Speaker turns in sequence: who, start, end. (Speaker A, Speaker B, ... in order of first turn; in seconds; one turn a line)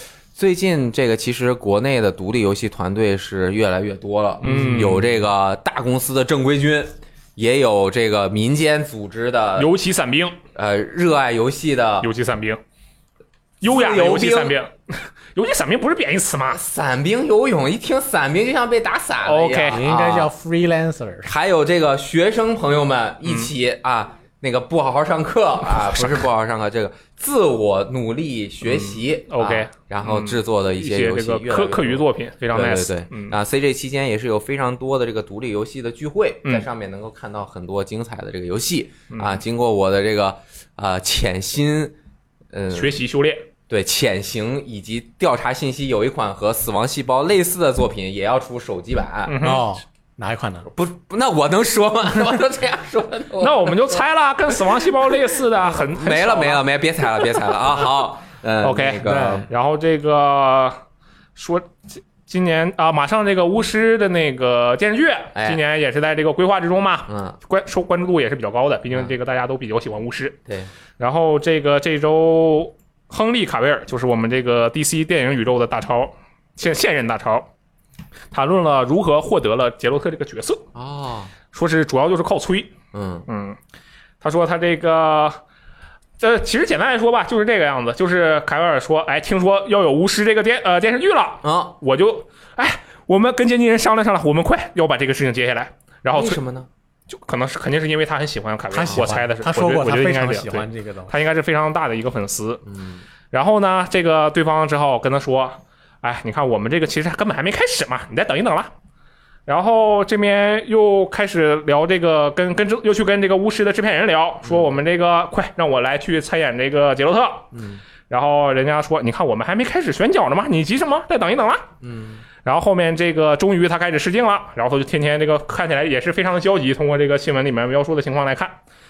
Speaker A: 0.3-9.7
Speaker B: 4.4-5.0
Speaker C: 4.5-5.0
Speaker B: 9.6-10.4
Speaker A: 10.6-12.1
Speaker B: 12.0-12.6
Speaker B: 13.6-16.6
Speaker A: 13.6-14.6
Speaker A: 16.5-20.3
Speaker B: 19.2-19.8
Speaker C: 19.7-21.3
Speaker A: 21.2-42.0
Speaker B: 28.6-33.4
Speaker B: 39.1-39.4
Speaker A: 42.5-43.0
Speaker B: 42.7-43.5
Speaker A: 43.7-49.4
Speaker B: 49.3-49.7
Speaker C: 49.4-50.7
Speaker A: 50.7-54.0
Speaker B: 53.4-56.6
Speaker A: 55.6-59.5
Speaker B: 58.6-60.8
Speaker C: 59.0-59.4
Speaker B: 61.4-70.4
Speaker A: 65.3-65.6
Speaker A: 67.1-67.4
Speaker B: 71.0-77.5
Speaker B: 78.3-80.7
Speaker A: 80.8-81.3
Speaker B: 81.5-82.7
Speaker A: 82.9-83.3
Speaker B: 83.3-83.6
Speaker B: 84.2-85.4
Speaker B: 86.2-96.4
Speaker A: 91.4-91.7
Speaker A: 96.1-96.7
Speaker B: 97.1-102.6
Speaker C: 98.7-101.2
Speaker A: 102.7-103.0
Speaker B: 103.3-108.7
Speaker B: 109.5-117.5
Speaker A: 114.4-114.7
Speaker A: 117.5-117.8
Speaker B: 118.1-121.7
Speaker A: 121.8-122.2
Speaker B: 122.4-128.6